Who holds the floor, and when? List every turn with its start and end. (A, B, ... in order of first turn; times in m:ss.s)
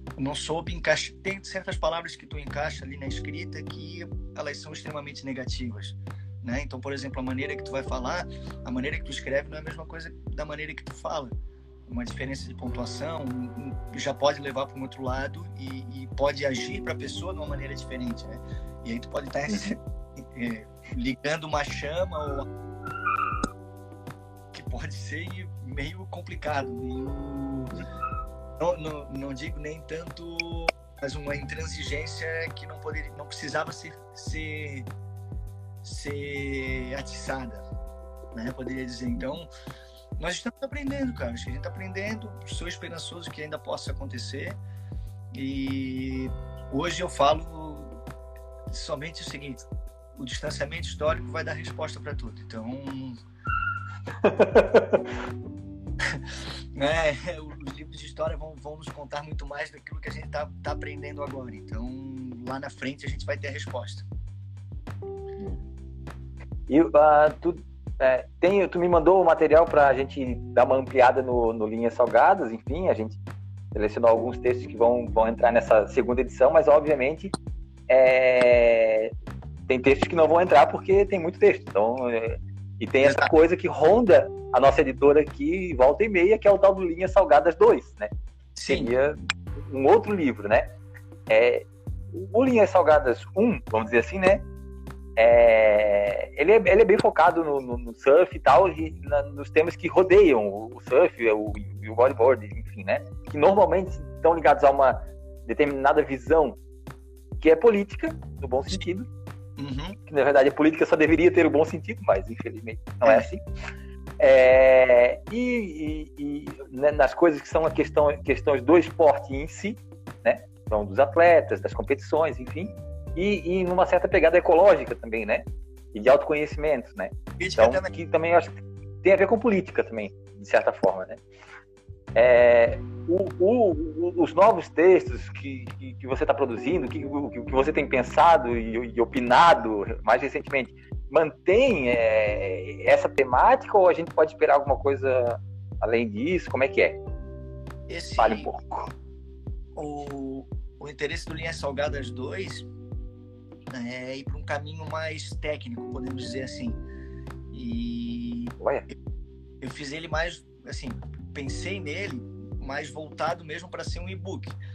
0:00.2-0:11.4 A
0:11.9-0:22.5 A
0:19.5-0:19.8 B
0:24.5-0:27.8 A
0:28.6-0:34.9 A
0:35.8-0:37.6 A
0:38.3-0:39.5 A
0:40.2-0:44.6 A
0:45.3-0:48.0 A
0:48.7-0:53.2 A
0:54.2-0:55.1 B
0:56.0-1:04.1 A
1:06.7-1:13.2 B
1:13.7-1:17.4 B
1:17.9-1:19.1 B
1:19.7-1:28.1 B
1:23.0-1:23.3 A
1:28.6-1:28.9 A
1:28.7-1:30.7 B
1:31.3-1:34.4 B
1:35.2-1:46.6 B
1:47.4-1:49.1 B
1:49.6-1:50.0 A
1:50.1-1:53.4 B
1:54.2-2:11.2 B
2:07.4-2:07.9 A
2:12.2-2:27.0 B
2:27.9-2:28.5 A
2:28.2-2:28.9 B
2:29.8-2:32.7 A
2:33.7-2:36.8 A
2:37.5-2:38.5 A
2:38.6-2:38.9 B
2:39.6-2:44.6 A